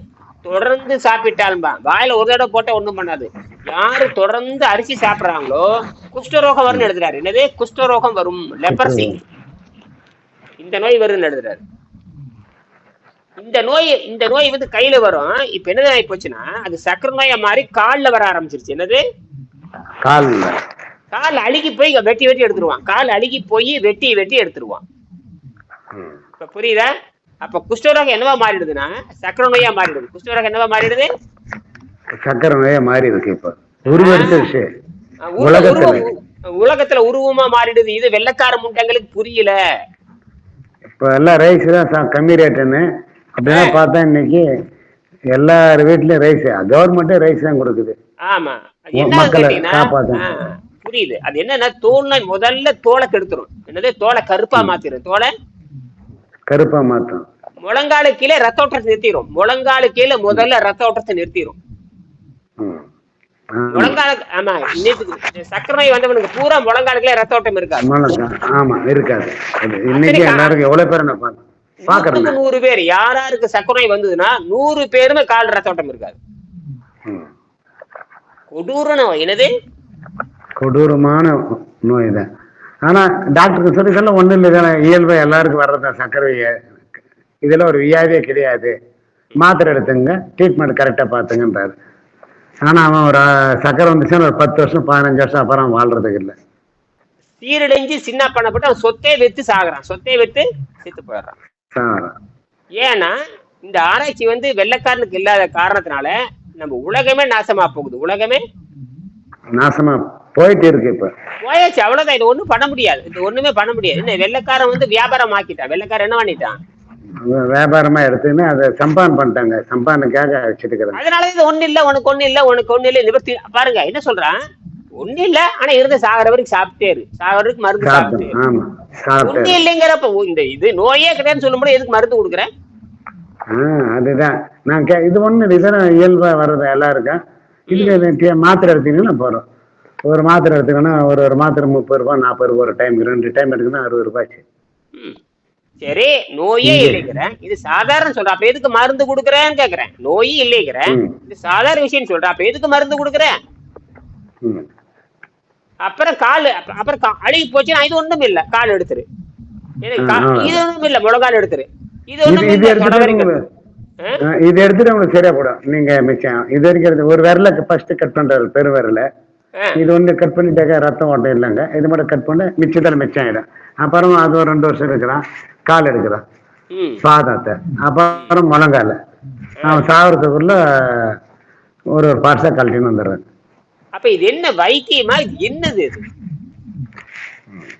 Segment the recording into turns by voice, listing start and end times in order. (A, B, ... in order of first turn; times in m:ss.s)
0:00.5-0:09.2 A
0:08.7-0:09.2 B
0:10.6-0:11.6 A
0:13.4-0:19.0 A
0:20.0-0:20.6 B
0:21.1-0:24.8 A
0:26.4-0:26.9 A
0:27.4-0:31.1 A
0:32.2-0:34.7 B
0:33.9-0:34.5 A
0:35.3-0:39.6 A
0:35.4-0:36.0 B
0:41.0-0:42.9 B
0:43.4-0:44.5 B
0:43.5-0:43.8 A
0:45.3-0:48.0 B
0:48.3-0:55.3 A
0:49.0-0:50.2 B
0:56.5-0:57.2 B
0:57.6-1:01.6 A
1:02.6-1:02.9 B
1:03.5-1:04.0 B
1:03.7-1:08.0 A
1:07.8-1:11.4 B
1:09.9-1:10.6 A
1:11.8-1:16.2 A
1:11.9-1:12.4 B
1:17.0-1:17.3 B
1:18.5-1:19.5 A
1:20.6-1:22.3 B
1:22.8-1:26.6 B
1:27.4-1:28.8 B
1:29.4-1:31.7 B
1:32.7-1:36.3 B
1:37.4-1:41.3 A
1:41.7-1:42.1 B
1:42.8-1:48.4 A
1:49.6-1:51.1 B
1:51.4-1:56.6 A
1:57.2-2:01.0 B
2:01.0-2:04.4 A
2:05.0-2:08.4 A
2:07.8-2:09.6 B
2:09.2-2:12.5 A
2:13.5-2:19.4 B
2:17.7-2:18.0 A
2:20.1-2:24.4 B
2:25.8-2:33.3 A
2:26.6-2:27.0 B
2:35.8-2:39.0 A
2:39.8-2:43.3 A
2:40.0-2:40.6 B
2:42.3-2:43.4 B
2:44.2-2:49.1 B
2:49.8-2:56.2 B
2:56.7-2:57.0 A
2:57.0-2:59.0 B
2:59.6-3:00.0 A
2:59.6-3:01.2 B
3:01.9-3:03.2 B
3:04.0-3:06.1 A